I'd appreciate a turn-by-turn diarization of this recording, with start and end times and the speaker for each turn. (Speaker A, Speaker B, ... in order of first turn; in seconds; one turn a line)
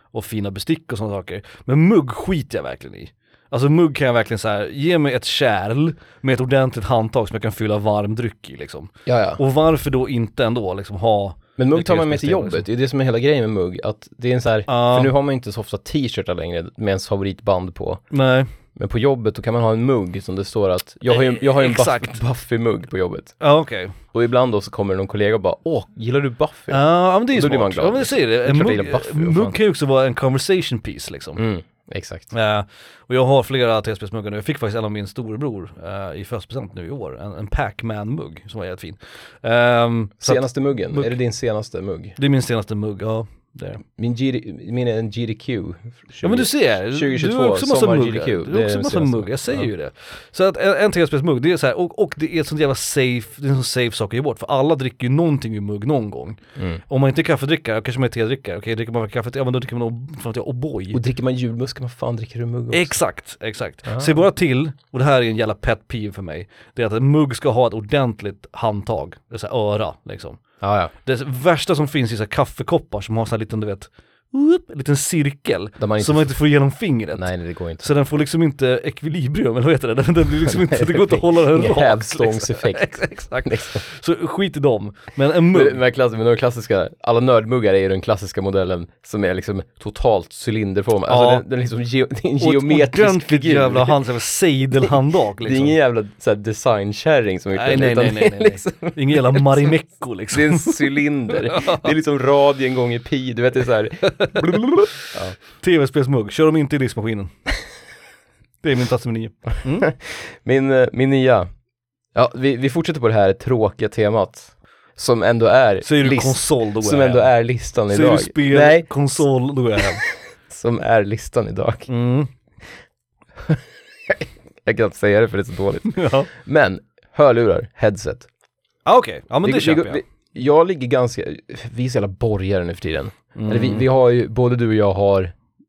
Speaker A: 0.1-12.6
Speaker B: 9.1-9.4
Speaker B: 11.6-18.0
Speaker A: 14.7-15.1
Speaker A: 18.1-18.5
Speaker B: 18.8-23.4
Speaker A: 21.1-22.2
Speaker A: 23.4-24.0
Speaker B: 24.1-29.6
Speaker A: 26.7-31.4
Speaker B: 31.4-32.3
Speaker A: 32.3-41.1
Speaker B: 40.2-42.2
Speaker A: 42.2-43.8
Speaker B: 44.0-49.7
Speaker A: 46.2-61.0
Speaker B: 56.6-56.8
Speaker B: 60.9-62.9
Speaker A: 62.7-70.4
Speaker B: 63.9-64.2
Speaker B: 70.6-70.9
Speaker A: 71.0-77.3
Speaker B: 75.8-76.3
Speaker B: 77.2-77.9
Speaker A: 77.8-85.8
Speaker B: 80.5-83.8
Speaker B: 85.5-94.0
Speaker A: 91.1-91.5
Speaker A: 92.4-95.8
Speaker B: 95.4-99.7
Speaker A: 97.5-101.0
Speaker B: 100.3-105.4
Speaker A: 101.5-101.9
Speaker A: 104.0-107.3
Speaker A: 108.6-109.9
Speaker B: 109.7-111.5
Speaker B: 112.2-119.2
Speaker A: 115.8-117.3
Speaker A: 117.9-120.0
Speaker B: 119.8-121.9
Speaker A: 121.9-122.3
Speaker B: 123.4-128.3
Speaker A: 125.9-126.3
Speaker A: 128.9-130.0
Speaker B: 129.4-135.3
Speaker A: 133.4-133.8